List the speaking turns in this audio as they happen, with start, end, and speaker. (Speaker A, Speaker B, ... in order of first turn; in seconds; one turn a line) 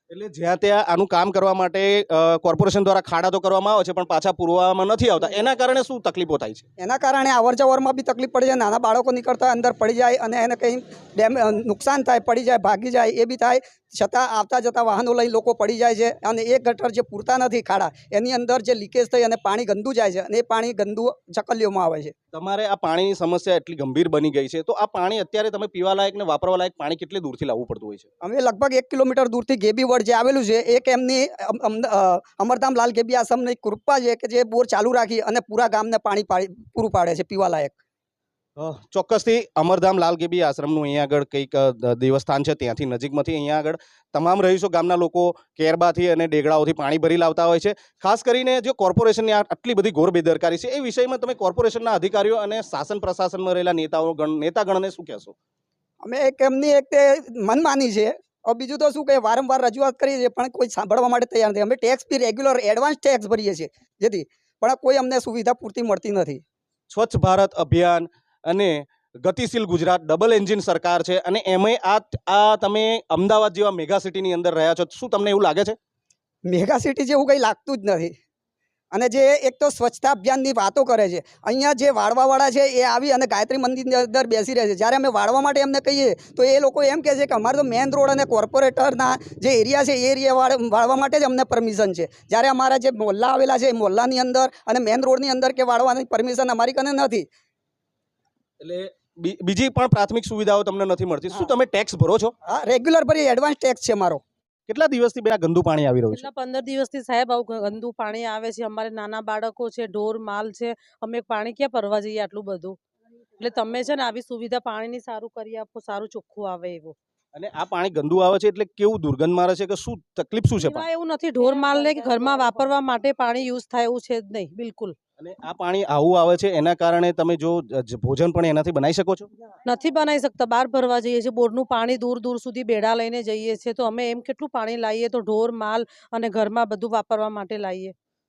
Speaker A: 0.1-6.7
Speaker B: 6.8-22.1
Speaker A: 22.3-28.1
Speaker B: 28.2-37.7
Speaker A: 38.6-55.3
Speaker B: 56.0-66.4
Speaker A: 66.9-75.8
Speaker B: 76.5-78.1
Speaker B: 78.9-97.3
Speaker A: 98.6-102.3
Speaker B: 102.5-104.2
Speaker A: 104.7-106.3
Speaker C: 106.1-112.8
Speaker C: 113.4-117.0
Speaker A: 117.3-120.9
Speaker C: 120.6-125.0
Speaker A: 125.2-129.3
Speaker C: 129.7-137.9